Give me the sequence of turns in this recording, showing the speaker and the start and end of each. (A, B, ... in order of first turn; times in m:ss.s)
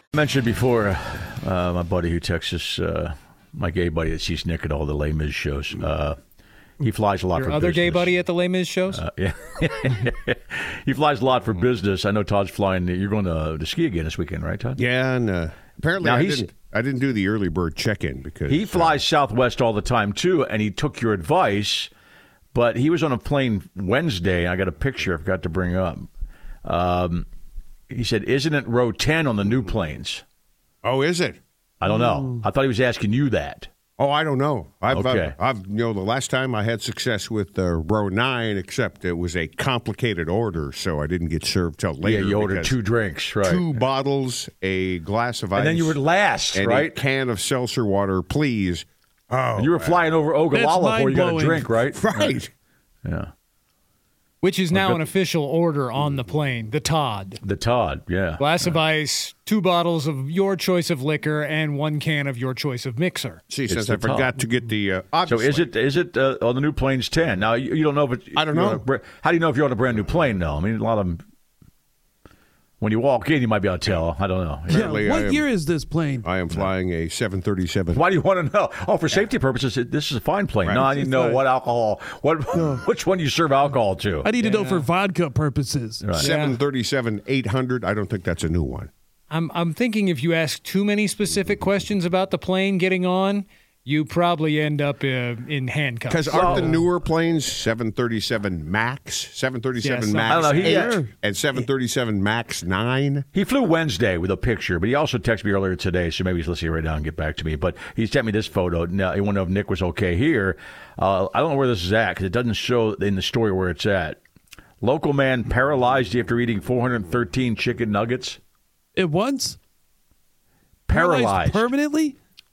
0:00.1-0:06.2 A
0:06.8-0:08.2 A
0:07.4-0:09.0 B
0:08.9-0:14.8 A
0:14.8-0:19.0 C
0:16.0-0:16.5 A
0:18.5-0:21.9 A
0:22.5-0:26.1 A
0:26.6-0:27.3 A
0:27.9-0:30.2 A
0:30.8-0:31.4 C
0:31.8-0:33.7 A
0:31.8-0:32.4 D
0:34.0-0:42.8 C
0:34.9-0:35.4 A
0:42.0-0:43.7 A
0:43.4-0:46.0 C
0:45.6-0:47.0 A
0:46.5-0:50.2 C
0:49.6-0:52.4 A
0:50.5-0:51.8 D
0:51.9-0:52.5 C
0:53.0-0:53.3 A
0:54.4-0:57.4 B
0:54.7-0:55.0 A
0:57.4-0:58.8 A
0:58.4-1:03.4 B
1:03.5-1:05.7 C
1:03.7-1:04.3 A
1:05.3-1:11.2 A
1:08.4-1:08.8 C
1:12.8-1:15.0 A
1:14.7-1:16.3 D
1:14.7-1:15.5 C
1:16.2-1:18.0 C
1:17.9-1:24.3 A
1:20.6-1:20.9 C
1:20.9-1:21.4 D
1:22.5-1:22.9 D
1:24.2-1:26.1 D
1:24.4-1:24.9 B
1:26.0-1:26.3 A
1:26.2-1:28.9 C
1:26.2-1:26.6 B
1:29.3-1:36.6 B
1:36.1-1:43.3 C
1:36.3-1:36.7 A
1:39.8-1:40.8 B
1:40.3-1:41.0 A
1:40.6-1:41.1 D
1:43.3-1:54.2 A
1:54.8-1:58.4 A
1:59.0-1:59.6 D
2:00.9-2:01.7 A
2:00.9-2:02.2 D